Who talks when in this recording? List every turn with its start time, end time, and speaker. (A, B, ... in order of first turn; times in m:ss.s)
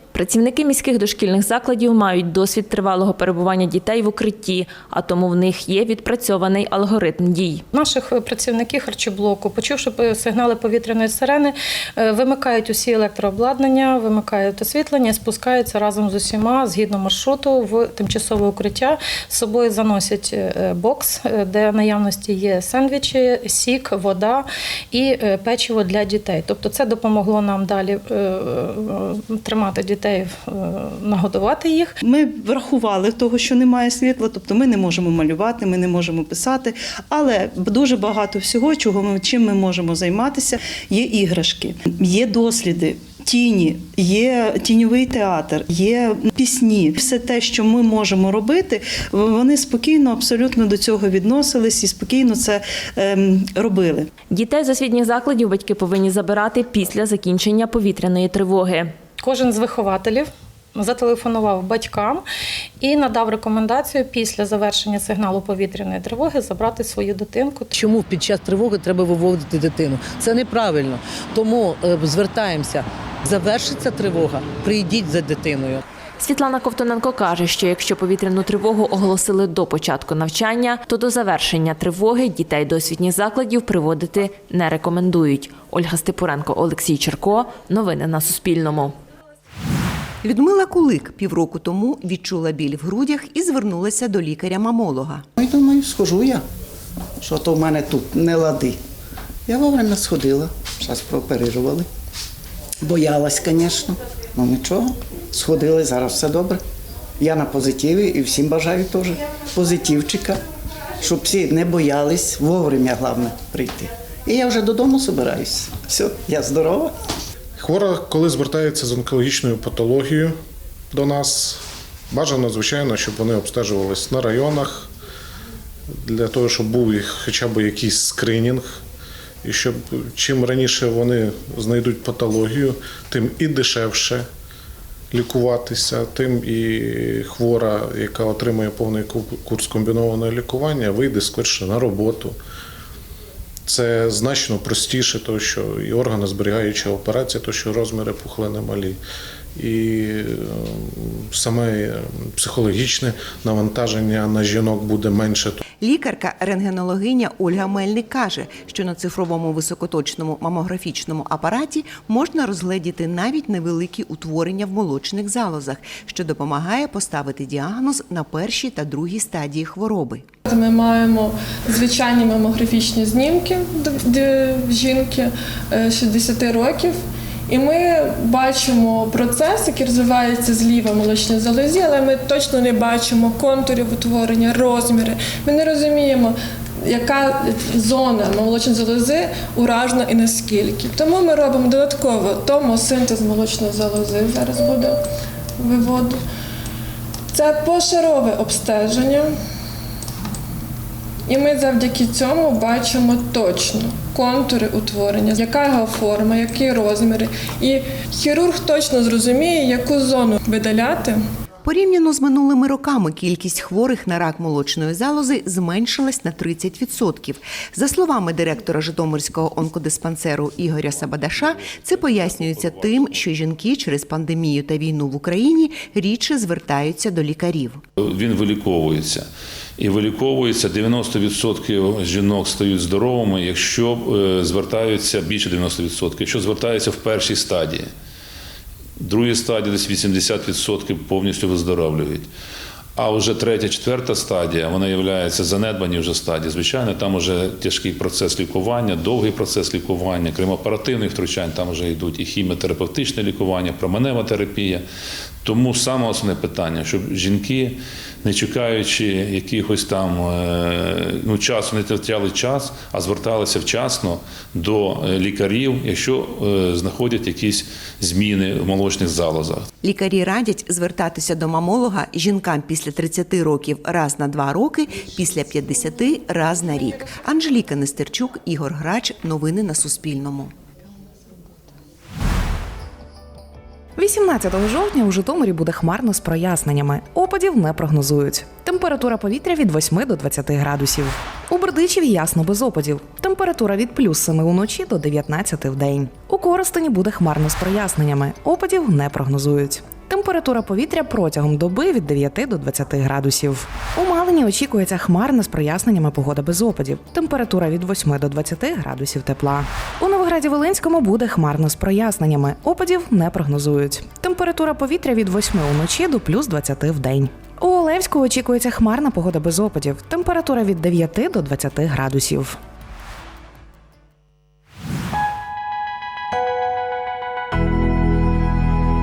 0:00.1-0:07.6 A
0:07.7-0:31.9 B
0:32.0-0:54.1 C
0:54.3-0:58.9 A
0:59.2-1:02.2 B
1:02.8-1:07.7 B
1:08.0-1:11.6 D
1:14.0-1:15.6 D
1:16.2-1:29.0 A
1:30.2-1:35.2 E
1:35.4-1:36.4 F
1:37.2-1:38.8 F
1:39.5-1:41.8 F
1:42.8-1:46.6 F
1:47.2-1:50.4 F
1:51.0-1:56.9 F
1:57.6-2:00.3 G
2:00.9-2:01.6 G
2:02.1-2:04.9 G
2:06.1-2:08.6 G
2:09.4-2:14.2 G
2:15.1-2:22.3 G
2:23.7-2:29.0 G
2:29.6-2:35.5 G
2:35.8-2:50.2 E
2:50.4-2:57.0 H
2:57.5-3:15.0 H
3:15.6-3:16.2 H
3:17.3-3:19.3 H
3:21.3-3:31.2 H
3:31.6-3:47.8 E
3:41.7-3:42.7 I
3:48.0-3:49.2 I
3:49.8-3:57.9 I
3:59.0-4:02.3 I
4:03.0-4:14.8 I
4:15.4-4:29.7 I
4:29.8-4:40.5 E
4:44.0-5:22.6 J